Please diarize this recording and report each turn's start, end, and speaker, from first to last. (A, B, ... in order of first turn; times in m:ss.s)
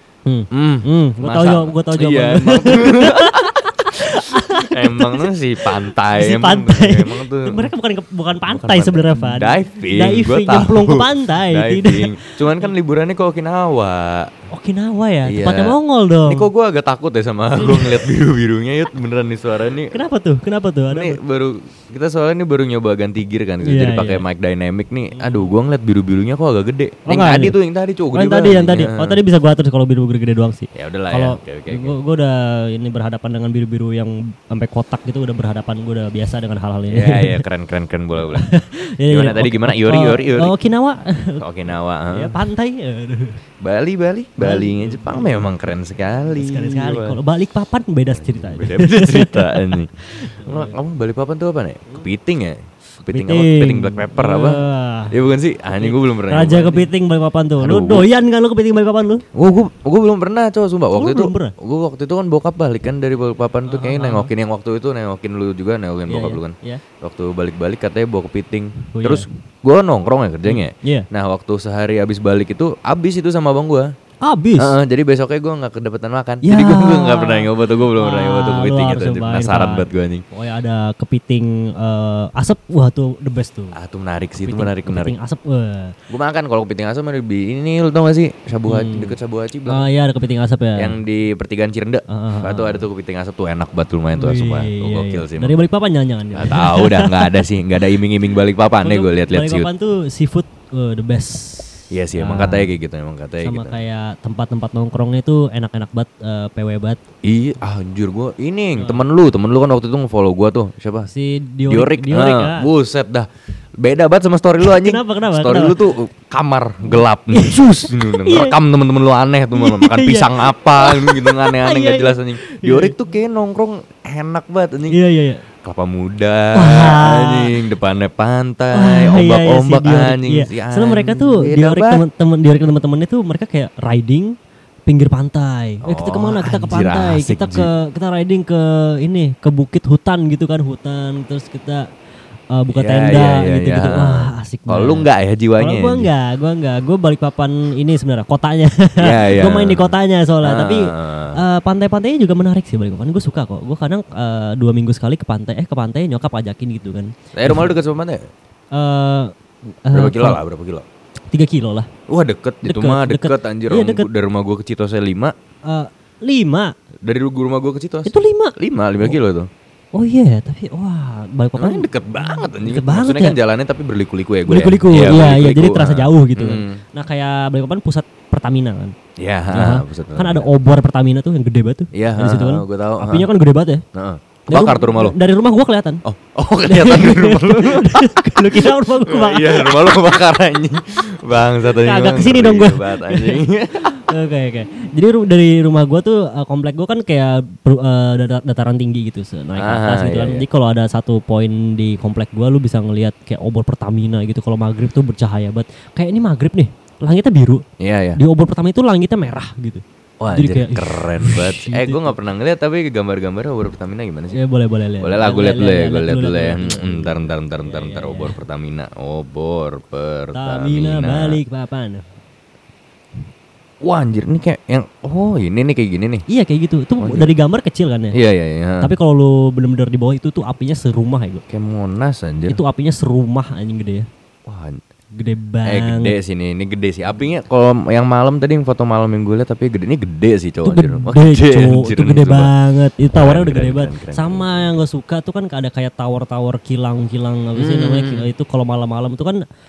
0:00.3-0:12.7 A
0:00.5-0:07.7 B
0:08.5-0:14.3 B
0:14.5-0:16.5 A
0:15.2-0:20.0 B
0:17.6-0:18.1 A
0:19.9-0:21.2 A
0:20.9-0:29.2 B
0:23.6-0:24.2 A
0:25.1-0:25.5 A
0:27.1-0:27.6 A
0:28.1-0:37.4 A
0:30.7-0:32.0 B
0:36.9-0:38.5 B
0:38.2-0:41.4 A
0:39.1-0:40.5 B
0:41.4-0:42.3 B
0:42.1-0:43.4 A
0:43.6-0:47.2 B
0:44.4-0:45.4 A
0:46.3-0:50.8 A
0:48.2-0:56.9 B
0:53.1-0:55.1 A
0:55.8-0:59.2 A
0:57.6-0:58.1 B
0:59.3-1:13.9 B
1:01.0-1:01.5 A
1:03.7-1:04.3 A
1:06.1-1:06.8 A
1:08.9-1:09.2 A
1:10.5-1:11.1 A
1:14.2-1:14.8 A
1:14.6-1:20.2 B
1:16.4-1:23.8 A
1:23.7-1:25.1 B
1:24.4-1:26.0 A
1:26.1-1:29.8 B
1:28.7-1:29.2 A
1:29.7-1:31.0 A
1:30.8-1:35.6 B
1:32.1-1:32.9 A
1:34.2-1:37.4 A
1:36.3-1:39.7 B
1:38.8-1:42.7 A
1:41.9-1:43.8 B
1:43.4-1:47.0 A
1:47.2-1:51.1 B
1:48.8-1:49.0 A
1:51.1-1:52.7 A
1:51.7-1:53.3 B
1:53.8-2:05.0 B
1:54.6-1:55.8 A
1:56.8-1:58.6 A
1:59.5-2:02.9 A
2:04.9-2:05.4 A
2:05.6-2:12.0 B
2:06.5-2:07.6 A
2:08.7-2:14.4 A
2:14.9-2:21.9 A
2:15.8-2:17.7 B
2:22.5-2:25.1 A
2:22.7-2:26.1 B
2:25.6-2:37.7 A
2:29.0-2:31.4 B
2:37.3-2:38.3 B
2:38.7-2:39.3 A
2:39.8-2:40.4 A
2:39.9-2:40.8 B
2:41.3-2:41.9 A
2:42.1-2:45.3 B
2:42.6-2:44.1 A
2:45.6-2:46.7 A
2:47.0-2:49.5 B
2:48.1-2:49.2 A
2:49.9-2:53.4 A
2:51.6-2:56.8 B
2:54.5-2:59.0 A
2:59.2-3:00.5 B
2:59.5-3:03.8 A
3:01.9-3:03.3 B
3:04.0-3:05.2 B
3:04.5-3:06.0 A
3:06.0-3:14.1 B
3:06.6-3:10.1 A
3:11.6-3:27.6 A
3:19.6-3:20.4 B
3:27.8-3:28.2 B
3:28.2-3:29.8 A
3:30.2-3:34.4 B
3:30.3-3:32.2 A
3:34.3-3:38.4 A
3:35.0-3:41.4 B
3:40.3-3:42.1 A
3:43.8-3:46.2 B
3:46.3-3:48.2 A
3:47.0-3:47.3 B
3:48.1-3:48.9 B
3:48.8-3:51.4 A
3:51.5-3:52.6 B
3:52.5-3:54.1 A
3:54.5-3:54.8 B
3:55.1-3:56.2 A
3:55.6-4:02.5 B
4:00.6-4:09.4 A
4:03.1-4:04.8 B
4:07.6-4:08.3 B